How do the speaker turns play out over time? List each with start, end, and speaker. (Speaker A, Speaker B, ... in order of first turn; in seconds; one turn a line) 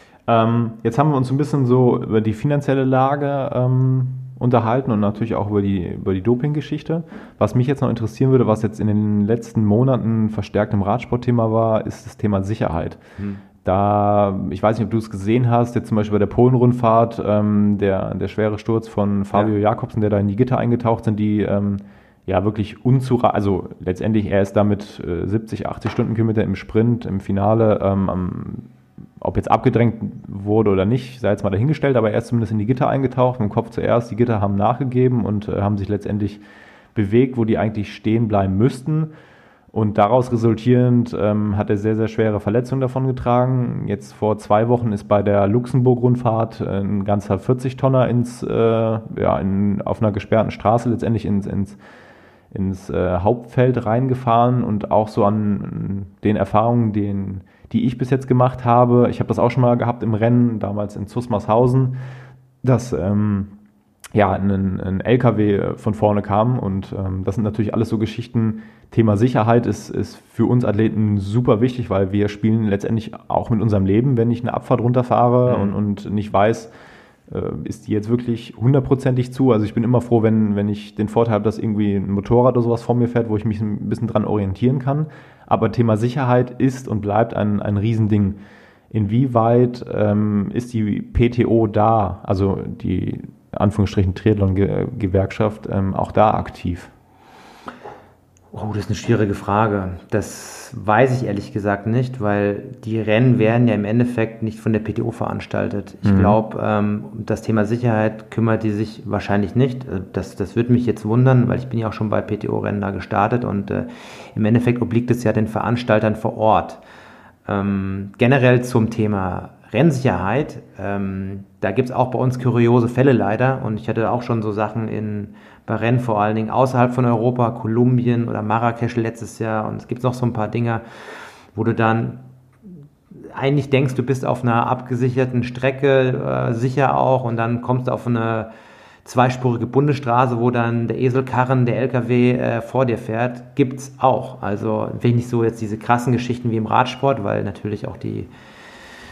Speaker A: 0.3-13.0
Speaker B: 13.2-13.4
Speaker A: 13.6-36.4
Speaker A: 36.9-39.1
Speaker A: 39.7-51.8
Speaker A: 52.5-62.0
Speaker A: 62.6-63.5
Speaker A: 64.1-76.7
Speaker B: 75.4-75.7
Speaker A: 77.3-88.4
Speaker A: 88.9-96.9
Speaker B: 98.5-116.8
Speaker A: 106.0-106.4
Speaker B: 117.5-130.8
Speaker B: 131.6-132.2
Speaker B: 133.2-138.5
Speaker B: 139.1-148.3